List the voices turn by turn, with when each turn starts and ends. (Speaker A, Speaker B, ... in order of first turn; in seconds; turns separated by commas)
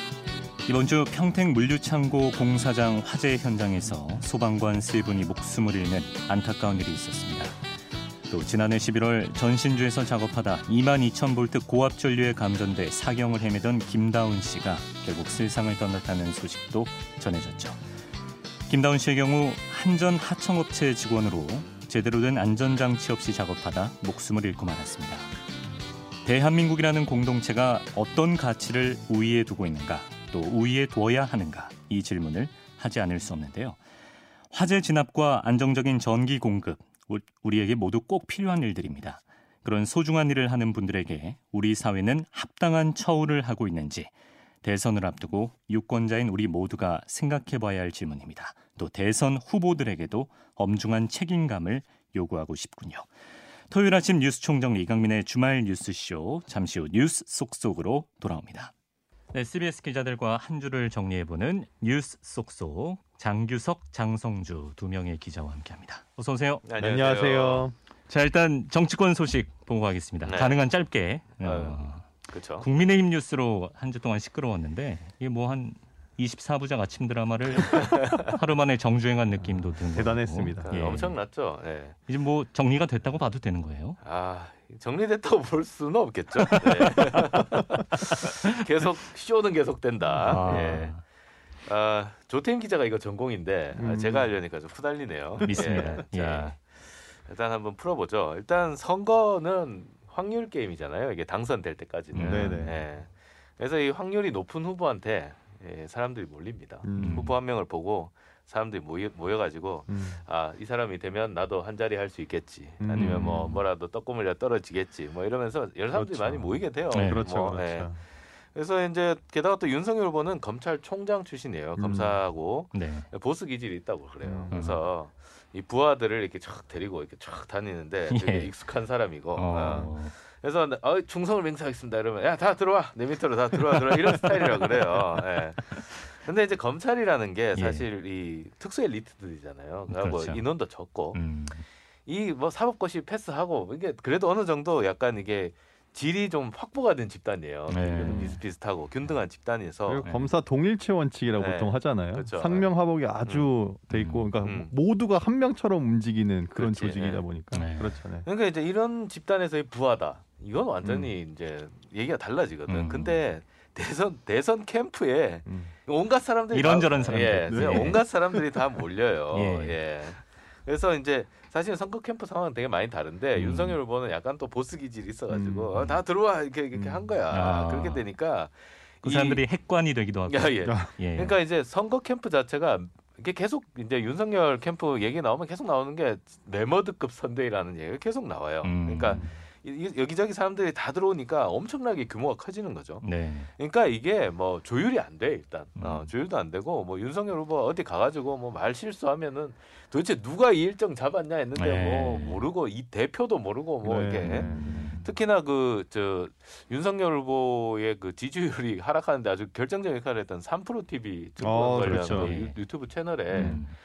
Speaker A: 0.7-7.5, Speaker A: 8.3-17.8, Speaker A: 18.7-25.3, Speaker A: 26.2-33.8, Speaker A: 34.5-44.1, Speaker A: 44.6-53.1, Speaker A: 53.7-58.7, Speaker A: 59.3-66.6, Speaker B: 66.6-67.7, Speaker C: 66.8-67.7, Speaker A: 68.1-81.2, Speaker B: 70.2-70.6, Speaker B: 71.4-72.7, Speaker B: 77.6-78.4, Speaker C: 79.4-81.0, Speaker B: 80.6-82.0, Speaker A: 82.1-84.0, Speaker B: 84.0-91.0, Speaker A: 86.5-87.0, Speaker C: 90.1-90.8, Speaker A: 90.2-91.0, Speaker B: 91.6-118.0, Speaker C: 93.7-94.3, Speaker C: 95.4-96.0, Speaker A: 95.5-96.5, Speaker A: 102.1-102.7, Speaker C: 102.2-102.8, Speaker C: 106.8-107.3, Speaker A: 107.0-107.3, Speaker C: 109.9-110.2, Speaker C: 112.8-113.4, Speaker A: 113.0-113.6, Speaker C: 115.9-118.0, Speaker A: 116.9-117.3, Speaker B: 118.5-141.2, Speaker C: 121.8-122.2, Speaker A: 122.7-123.1, Speaker C: 124.2-124.6, Speaker A: 124.5-124.8, Speaker A: 128.1-128.5, Speaker A: 129.3-130.1, Speaker C: 129.6-129.9, Speaker A: 133.9-135.2, Speaker A: 137.5-137.9, Speaker A: 139.9-140.4, Speaker A: 141.1-141.6, Speaker B: 142.1-150.0, Speaker A: 147.7-148.4, Speaker C: 148.0-148.4, Speaker C: 149.9-158.2, Speaker A: 150.0-150.3, Speaker B: 151.3-152.7, Speaker B: 153.2-153.5, Speaker A: 153.9-154.3, Speaker B: 154.4-154.7, Speaker B: 156.6-157.2, Speaker A: 157.5-158.0, Speaker B: 158.2-179.4, Speaker C: 160.8-161.1, Speaker A: 162.7-163.2, Speaker C: 165.4-165.7, Speaker A: 166.5-168.4, Speaker C: 167.5-168.1, Speaker A: 169.3-169.8, Speaker A: 173.3-173.8, Speaker C: 175.3-175.7, Speaker C: 176.7-177.1, Speaker A: 177.3-178.0, Speaker A: 179.0-181.3, Speaker B: 180.3-213.6, Speaker A: 188.6-189.3, Speaker C: 189.1-189.3, Speaker A: 193.0-193.5, Speaker A: 195.8-196.1, Speaker A: 201.6-202.4, Speaker C: 203.8-205.0, Speaker A: 204.2-205.1, Speaker C: 211.4-212.3, Speaker A: 211.8-212.6, Speaker A: 213.3-213.7, Speaker C: 213.3-213.6